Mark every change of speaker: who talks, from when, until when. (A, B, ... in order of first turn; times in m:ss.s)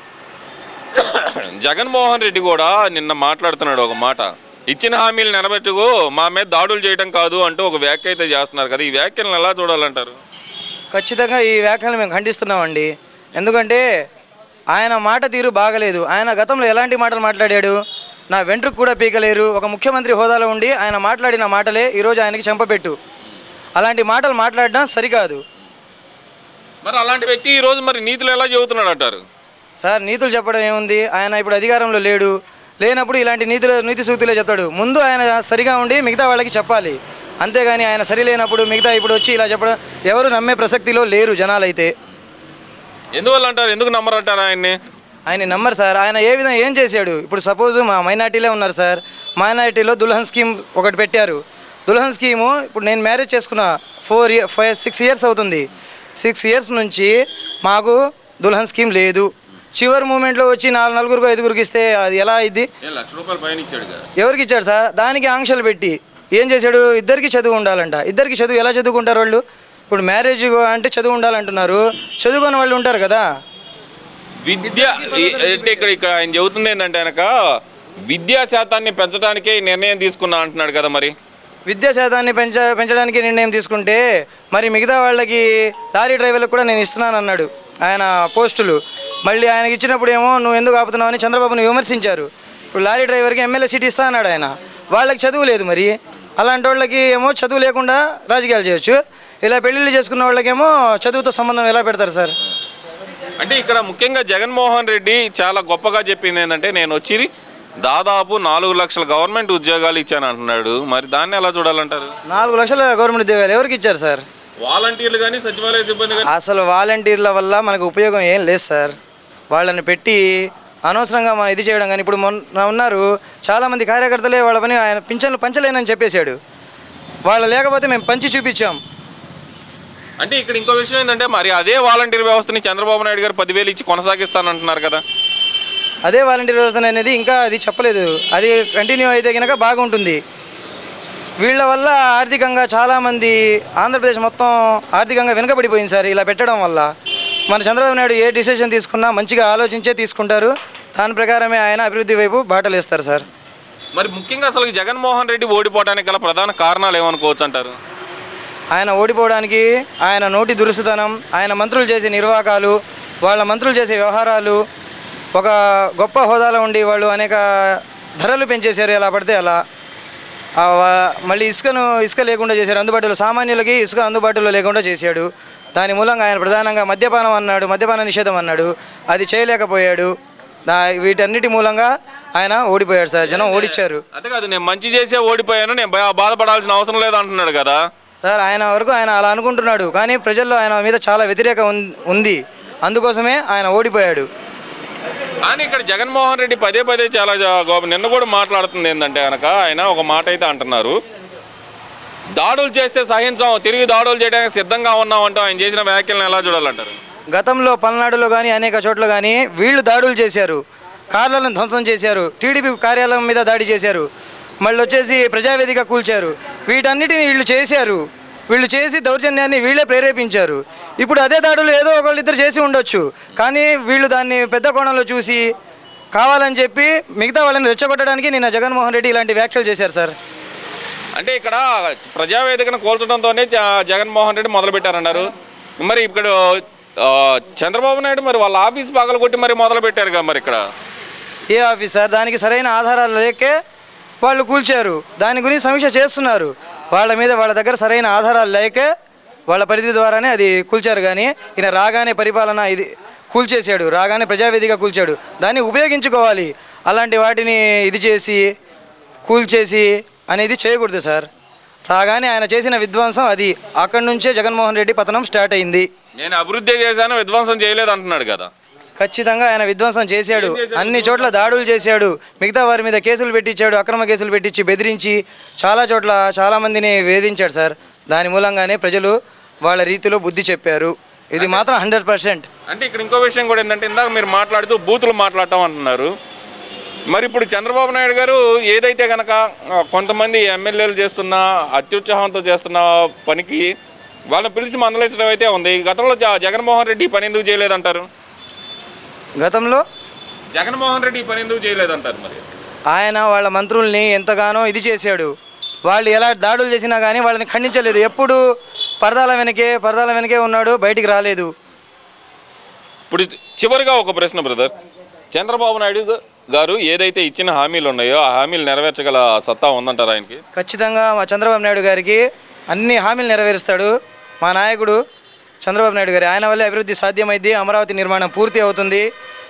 0:00.9-0:10.2 A
0:10.9-0:13.8 B
0:14.7-0:17.8 B
0:18.3-0:23.0 B
0:23.8-0:25.4 B
0:26.8-0:29.2 A
0:29.8-0:41.9 B
0:43.1-0:44.8 A
0:45.3-0:55.6 B
0:56.2-1:02.7 B
1:02.8-1:04.1 A
1:04.2-1:13.2 B
1:14.4-1:17.3 A
1:14.6-1:15.9 B
1:18.0-1:21.1 A
1:21.7-1:42.3 B
1:43.4-1:47.3 A
1:47.8-1:52.1 A
1:52.3-1:54.2 B
1:54.6-1:56.3 A
1:56.2-1:59.0 B
1:59.5-2:00.3 B
2:00.8-2:06.4 B
2:07.3-2:08.8 B
2:10.2-2:15.0 A
2:16.0-2:20.2 B
2:21.4-2:26.9 B
2:27.5-2:33.2 B
2:33.9-2:37.8 A
2:38.7-2:44.6 B
2:45.3-2:49.6 B
2:50.6-3:00.1 B
3:00.7-3:04.0 B
3:03.3-3:07.8 A
3:08.2-3:14.3 B
3:15.4-3:21.0 A
3:22.3-3:27.0 A
3:27.3-3:34.1 B
3:34.6-3:45.5 B
3:46.1-3:50.1 B
3:51.1-4:00.6 A
4:01.5-4:03.5 B
4:04.2-4:08.9 B
4:09.5-4:18.5 B
4:19.2-4:21.3 B
4:21.9-4:25.9 B
4:26.2-4:28.5 A
4:29.0-4:42.5 B
4:30.3-4:31.5 A
4:41.4-4:41.6 A
4:42.7-4:46.1 A
4:47.1-4:53.7 A
4:54.3-4:58.1 A
4:59.4-4:59.8 B
5:00.5-5:02.4 A
5:02.9-5:05.3 B
5:05.9-5:08.4 B
5:09.0-5:11.5 B
5:13.1-5:14.7 A
5:15.3-5:20.4 A
5:20.5-5:25.0 B
5:25.6-5:29.0 B